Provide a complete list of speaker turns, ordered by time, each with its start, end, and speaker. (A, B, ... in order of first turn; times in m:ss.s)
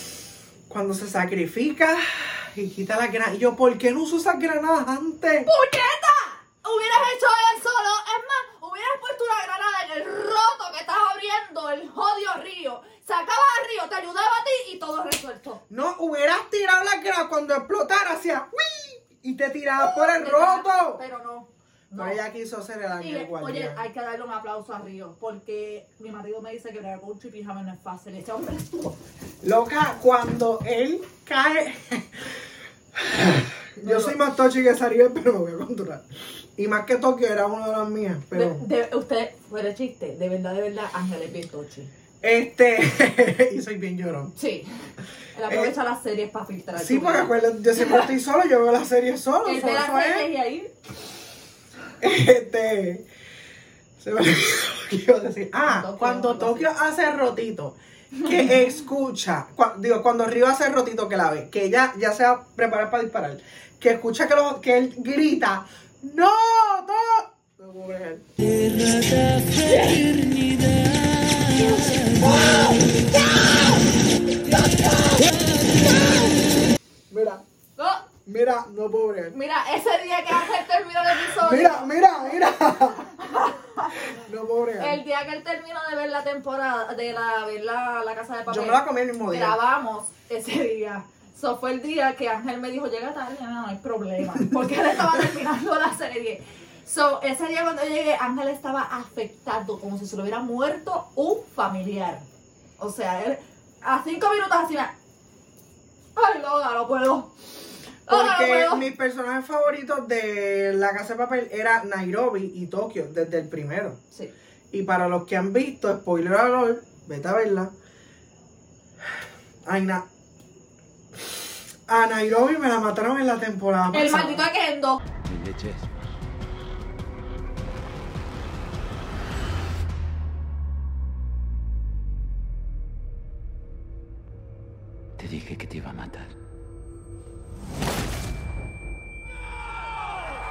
0:00.7-0:05.5 A
0:05.5-0:15.6 B
0:15.7-0:21.0 A
0:19.8-0:22.2 B
0:22.0-0:23.8 A
0:23.0-0:29.0 B
0:29.4-0:32.4 A
0:33.0-0:38.7 A
0:33.8-0:34.2 B
0:38.3-0:41.9 B
0:42.2-0:44.3 A
0:44.4-0:44.7 B
0:45.3-0:48.1 B
0:45.5-0:45.7 A
0:46.8-0:50.3 A
0:49.4-0:50.7 B
0:52.0-0:53.1 A
0:54.0-1:08.2 A
0:55.7-0:56.7 B
0:58.2-0:58.7 B
1:11.5-1:13.5 A
1:15.2-1:16.3 A
1:17.1-1:17.4 A
1:17.8-1:18.1 B
1:18.3-1:19.4 A
1:19.3-1:21.9 B
1:21.2-1:23.2 A
1:23.2-1:24.1 B
1:24.0-1:25.0 A
1:24.8-1:42.2 B
1:28.5-1:29.6 A
1:42.8-1:44.9 B
1:46.2-1:47.3 B
1:48.1-1:48.8 B
1:48.1-1:54.0 A
1:54.7-1:57.7 A
1:59.6-2:00.0 A
2:01.9-2:04.4 A
2:03.9-2:05.0 B
2:05.2-2:06.1 C
2:15.2-2:16.3 C